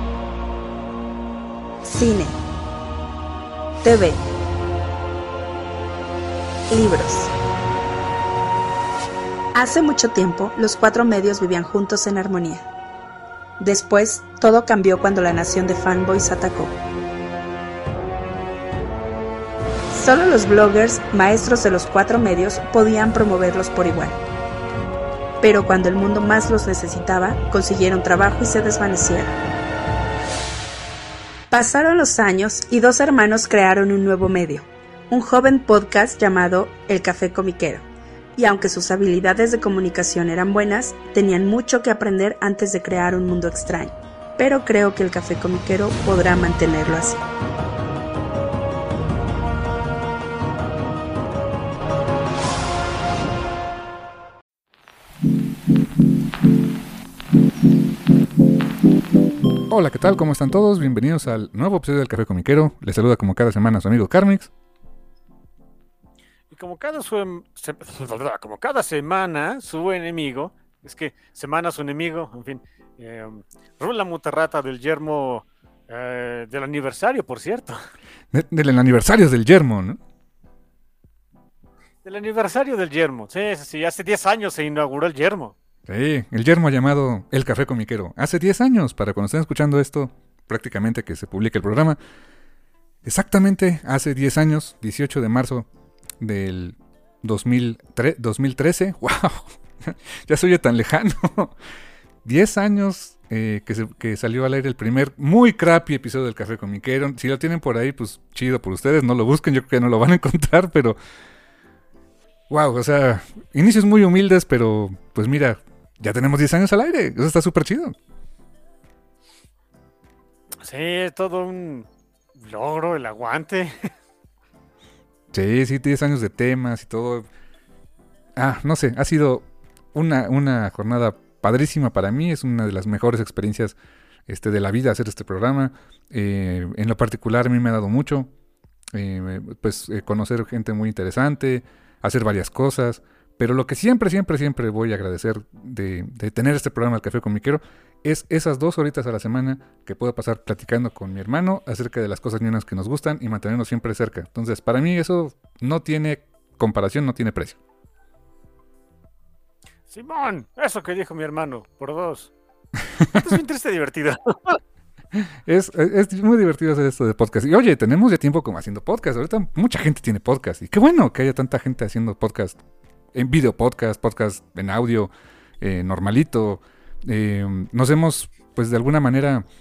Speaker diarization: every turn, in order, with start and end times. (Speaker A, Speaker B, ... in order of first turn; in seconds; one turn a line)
Speaker A: 1.8-2.4
Speaker A: 3.8-4.2
Speaker A: 6.7-7.3
Speaker A: 9.6-12.6
Speaker A: 13.6-16.7
Speaker A: 19.9-24.2
Speaker A: 25.4-29.3
Speaker A: 31.5-37.8
Speaker A: 38.4-47.2
Speaker B: 59.7-64.5
Speaker C: 66.5-77.8
Speaker B: 78.3-80.0
Speaker C: 82.0-85.5
Speaker B: 85.9-92.0
Speaker B: 93.0-95.7
Speaker B: 96.2-101.5
Speaker B: 102.2-111.0
Speaker B: 112.5-118.0
Speaker C: 120.6-123.9
Speaker B: 125.3-127.2
Speaker B: 128.3-138.3
Speaker B: 138.9-157.6
Speaker C: 159.9-162.3
Speaker C: 163.1-164.6
Speaker B: 165.1-172.6
Speaker B: 173.1-179.4